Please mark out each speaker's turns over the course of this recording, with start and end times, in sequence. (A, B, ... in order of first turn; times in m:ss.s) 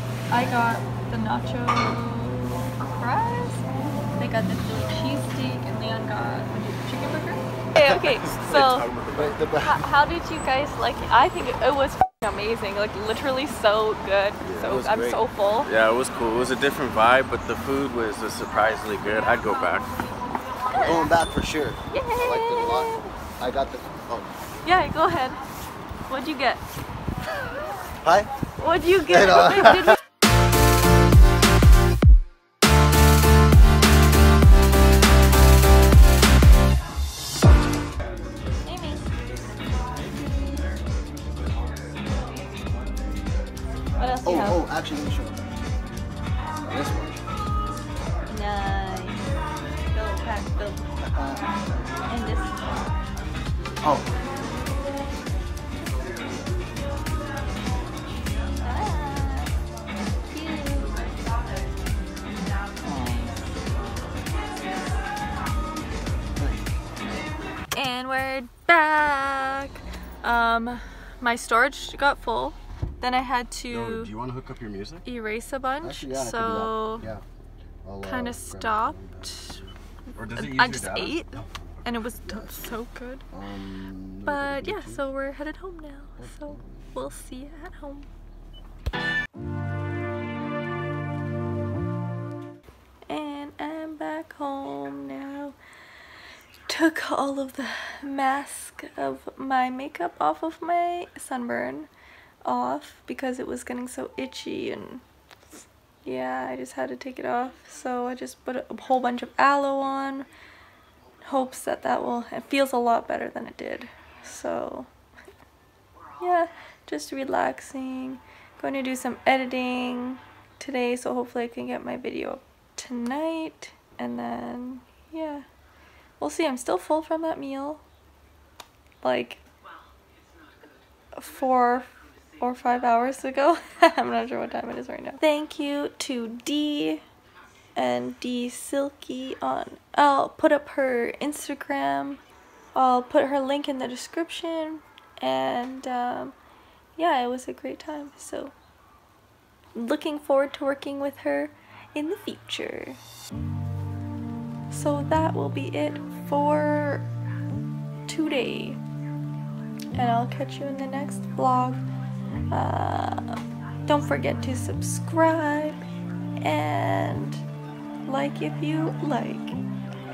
0:00.3-0:03.6 A
0:04.2-0:08.9 A
0:08.0-0:09.6 B
0:09.1-0:09.9 C
0:09.6-0:15.7 A
0:14.5-0:19.9 B
0:14.5-0:15.2 C
0:20.7-0:21.3 A
0:20.8-0:24.3 C
0:21.9-0:23.1 A
0:24.6-0:25.4 A
0:26.1-0:26.6 A
0:28.0-0:28.3 C
0:28.6-0:30.0 A
0:29.0-0:30.0 C
0:38.7-0:39.1 A
0:44.0-0:44.7 A
0:44.2-0:45.6 C
0:46.6-0:47.2 C
0:48.3-0:49.3 A
0:49.9-0:50.9 A
0:51.0-0:51.6 C
0:52.1-0:52.9 A
0:53.8-0:54.1 C
0:58.6-0:59.5 A
1:00.3-1:01.0 A
1:02.8-1:03.5 A
1:07.7-1:14.1 A
1:13.7-1:15.0 B
1:15.0-1:17.1 A
1:15.8-1:17.2 C
1:17.8-1:19.6 C
1:18.0-1:19.6 A
1:20.2-1:21.2 B
1:20.2-1:23.2 A
1:21.4-1:22.8 C
1:23.3-1:25.1 C
1:24.2-1:28.1 A
1:26.2-1:26.8 C
1:33.1-1:35.6 A
1:36.7-1:41.9 A
1:42.4-1:45.0 A
1:46.0-1:50.3 A
1:51.2-1:54.9 A
1:56.2-2:05.4 A
2:06.2-2:07.8 A
2:09.0-2:09.4 A
2:11.2-2:17.0 A
2:17.8-2:22.2 A
2:22.8-2:26.4 A
2:27.0-2:28.5 A
2:29.8-2:33.0 A
2:34.7-2:37.1 A
2:38.1-2:38.8 A
2:40.0-2:41.8 A
2:42.5-2:45.9 A
2:46.4-2:47.4 A
2:48.1-2:49.6 A